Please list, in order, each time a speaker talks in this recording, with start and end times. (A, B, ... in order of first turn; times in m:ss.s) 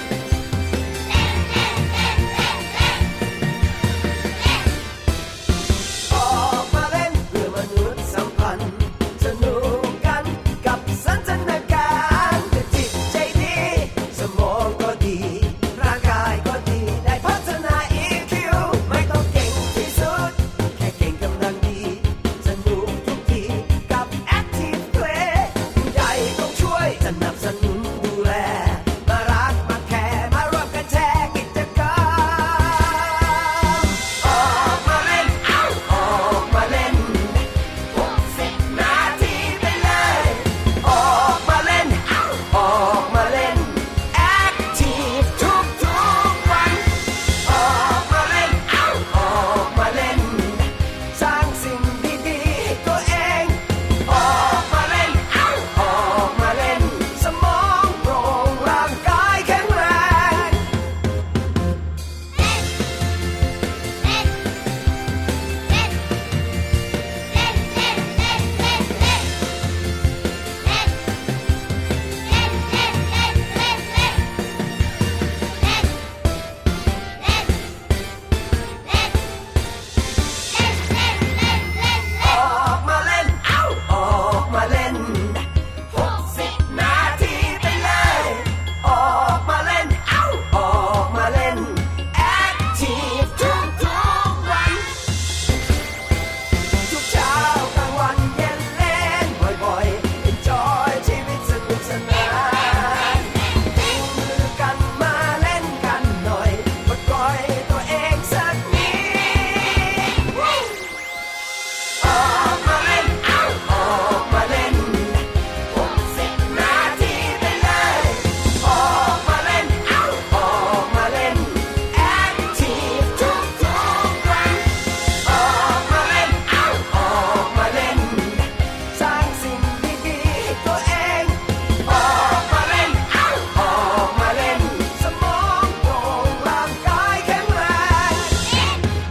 0:06.1-1:00.6 A
1:22.0-1:34.9 A
1:36.8-1:50.6 A
1:52.0-2:18.4 A